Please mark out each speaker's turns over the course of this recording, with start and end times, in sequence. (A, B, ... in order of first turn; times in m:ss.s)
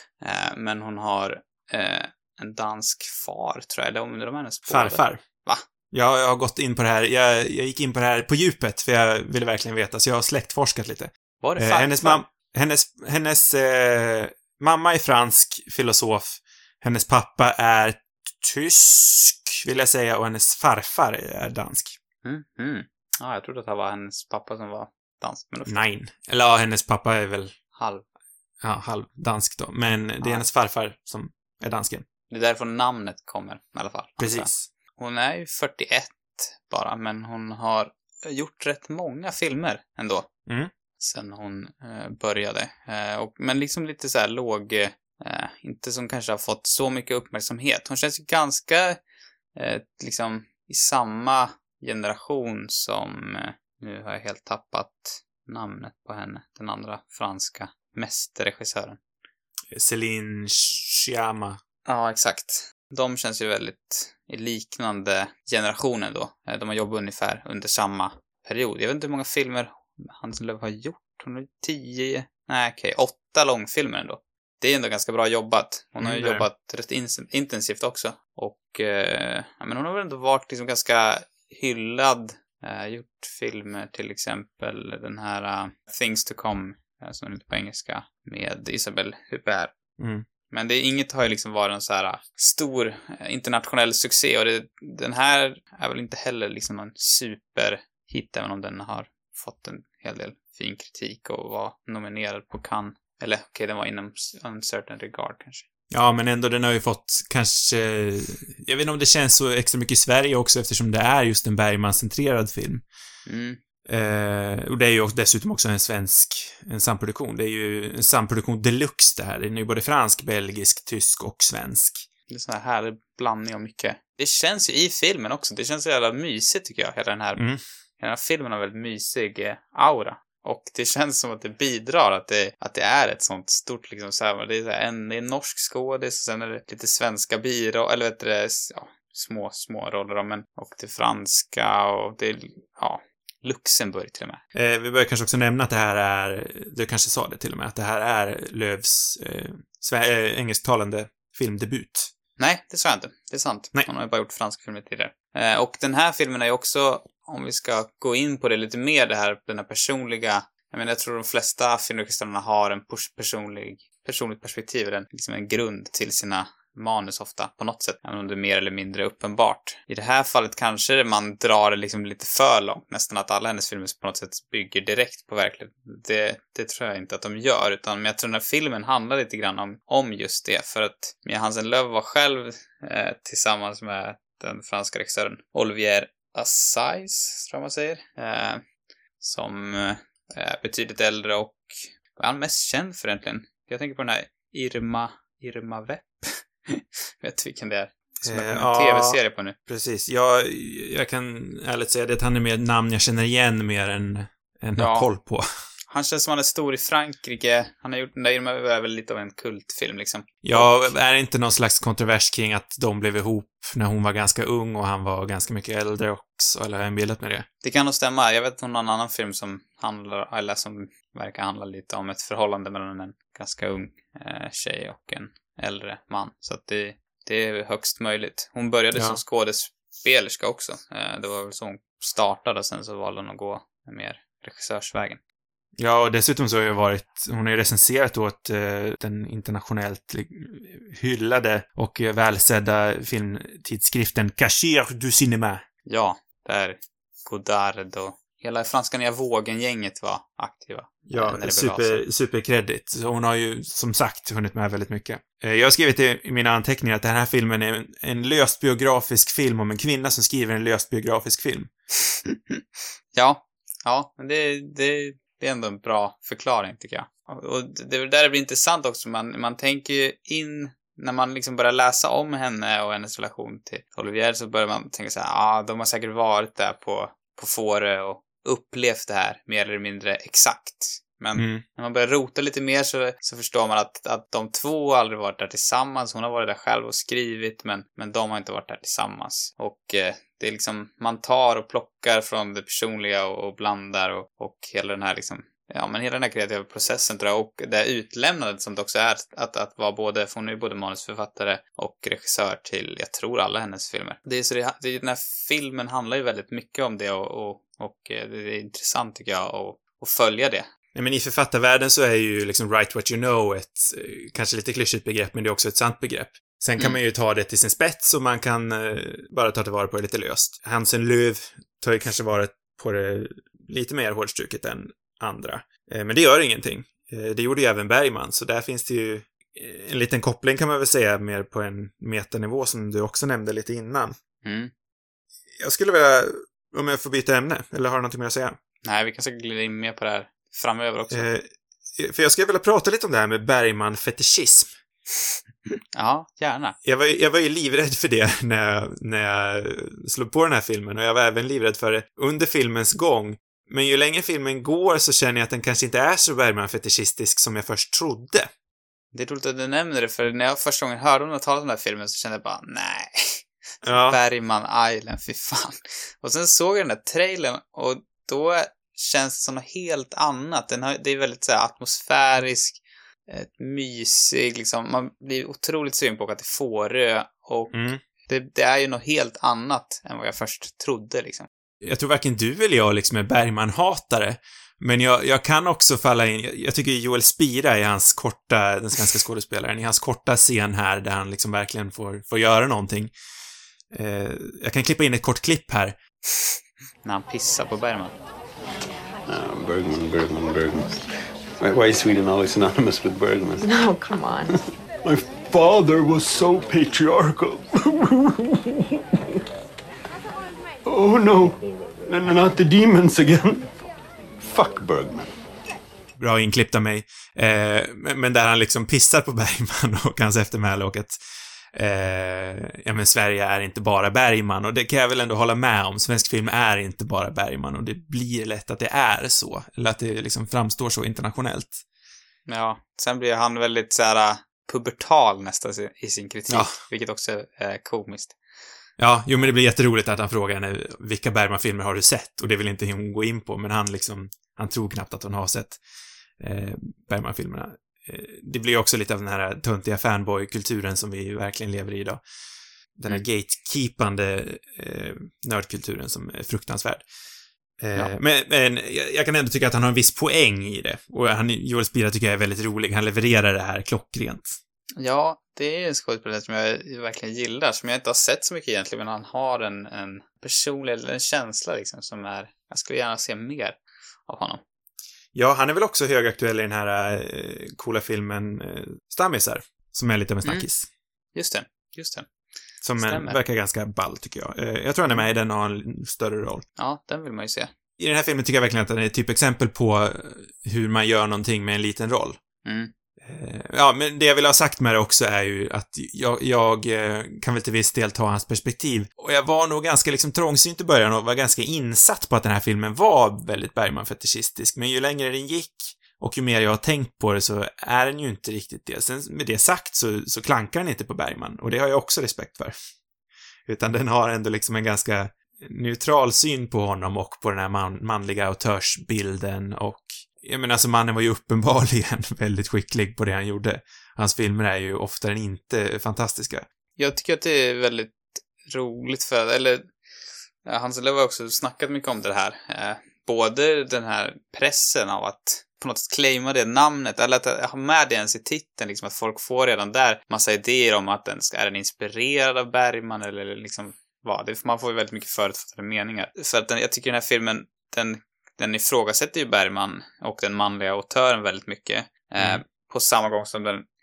0:00.2-0:05.6 A
0:04.7-0:05.2 B
0:05.9-0:22.0 B
0:11.4-0:12.2 A
0:22.2-0:25.8 A
0:25.7-0:27.5 B
0:27.8-0:28.0 A
0:28.6-0:32.0 B
0:32.3-0:40.3 A
0:34.2-0:34.6 B
0:41.0-0:49.0 A
0:49.5-0:59.0 A
0:59.7-1:01.6 B
1:01.8-1:29.7 A
1:16.0-1:16.4 B
1:30.0-1:30.2 B
1:30.5-1:45.6 A
1:45.9-1:52.8 B
1:53.2-1:53.6 A
1:53.9-2:02.1 B
2:02.3-2:07.4 A
2:07.4-2:07.6 B
2:08.0-2:24.4 A
2:24.5-2:32.1 B
2:32.4-3:08.6 A
3:09.2-3:19.6 A
3:18.2-3:25.5 B
3:24.8-3:25.1 A
3:25.9-3:30.9 A
3:30.4-3:37.4 B
3:37.6-3:55.2 A
3:55.8-4:05.6 B
4:05.8-4:12.0 A
4:11.1-4:21.7 B
4:23.1-5:10.7 A
4:41.3-4:41.6 B
5:10.9-5:34.1 B
5:34.4-5:34.7 A
5:35.6-5:38.6 B
5:38.8-5:41.3 A
5:41.1-5:44.7 B
5:45.9-5:46.7 A
5:46.8-5:58.5 B
5:59.1-6:21.5 A
6:03.8-6:04.2 B
6:17.7-6:18.0 B
6:21.8-6:33.1 B
6:33.9-6:36.0 B
6:37.0-6:38.1 A
6:39.3-6:41.0 C
6:41.6-6:43.8 C
6:44.5-6:48.6 C
6:50.8-6:53.7 C
6:54.4-6:55.4 C
6:56.2-7:01.2 B
7:01.7-7:11.8 B
7:12.5-7:18.4 A
7:16.5-7:16.8 B
7:19.0-7:25.8 B
7:26.4-7:32.2 B
7:33.0-7:37.0 B
7:37.8-7:44.6 B
7:45.0-7:54.6 A
7:55.3-8:00.9 B
8:01.3-8:02.3 A
8:02.8-8:06.6 B
8:03.0-8:03.4 A
8:06.8-8:07.7 A
8:08.0-8:12.4 B
8:12.6-8:12.9 A
8:13.2-8:32.7 B
8:33.7-8:46.6 B
8:47.0-8:49.9 A
8:50.6-9:13.8 A